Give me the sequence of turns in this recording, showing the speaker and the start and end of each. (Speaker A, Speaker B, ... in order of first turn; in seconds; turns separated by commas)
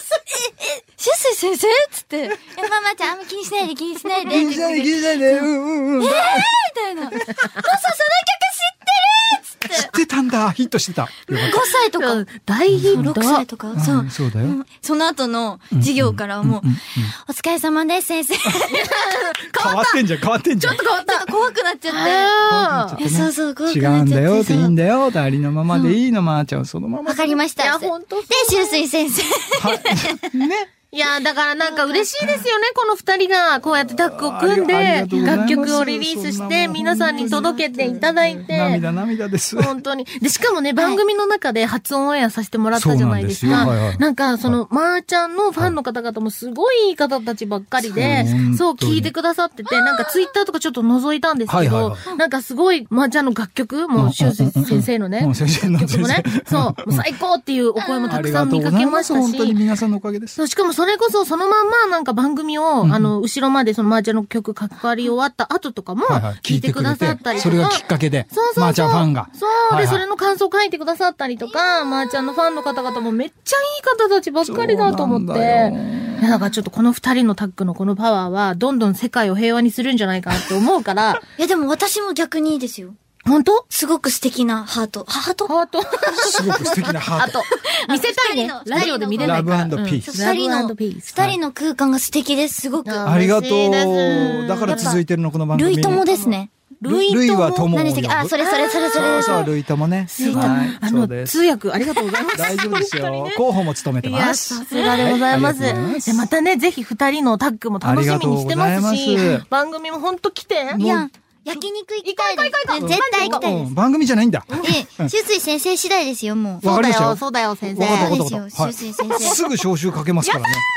Speaker A: 0.2-5.4, Speaker B: 4.2-6.6, Speaker A: 6.0-9.9, Speaker B: 9.7-11.6, Speaker A: 11.3-12.2, Speaker C: 11.5-13.4, Speaker B: 12.7-13.1, Speaker A: 12.8-19.0, Speaker B: 13.7-14.6, Speaker B: 15.7-17.1, Speaker B: 18.5-18.8, Speaker C: 18.7-20.0, Speaker B: 19.5-20.8, Speaker C: 20.6-21.3, Speaker A: 20.7-22.4, Speaker C: 21.9-23.0, Speaker B: 22.4-27.4, Speaker A: 23.0-24.8, Speaker A: 27.1-30.4, Speaker C: 27.5-28.8, Speaker B: 29.6-30.7, Speaker C: 30.9-38.8, Speaker A: 31.6-32.1, Speaker B: 33.8-37.6, Speaker A: 35.1-35.6, Speaker A: 36.8-38.5, Speaker B: 38.5-39.8, Speaker C: 39.5-59.6, Speaker A: 40.8-41.0, Speaker B: 42.7-44.6, Speaker A: 43.5-43.8, Speaker B: 48.0-49.1, Speaker B: 51.5-52.1, Speaker B: 54.0-57.1, Speaker A: 57.8-58.4, Speaker B: 58.1-60.4, Speaker C: 60.4-81.2, Speaker B: 62.8-63.1, Speaker B: 66.0-70.0, Speaker A: 67.3-67.7, Speaker B: 74.4-76.4, Speaker A: 81.4-83.0, Speaker C: 83.2-83.7, Speaker A: 83.7-85.5, Speaker C: 85.5-91.3, Speaker B: 86.2-87.4, Speaker A: 87.6-93.4, Speaker B: 88.8-90.1, Speaker C: 92.8-95.0, Speaker B: 93.0-96.1, Speaker A: 94.1-95.0, Speaker A: 95.5-96.5, Speaker C: 96.2-97.7, Speaker B: 96.8-101.4, Speaker A: 97.7-99.5, Speaker C: 98.4-99.5, Speaker C: 100.1-110.8, Speaker A: 100.2-100.8, Speaker B: 102.3-106.3, Speaker A: 104.7-105.2, Speaker B: 107.8-109.5, Speaker B: 110.7-111.1, Speaker A: 110.8-113.7, Speaker C: 111.5-113.5, Speaker B: 112.8-115.1, Speaker C: 114.5-114.8, Speaker A: 114.6-116.7, Speaker B: 116.6-120.6, Speaker C: 116.6-118.2, Speaker A: 117.8-119.4, Speaker C: 119.1-119.4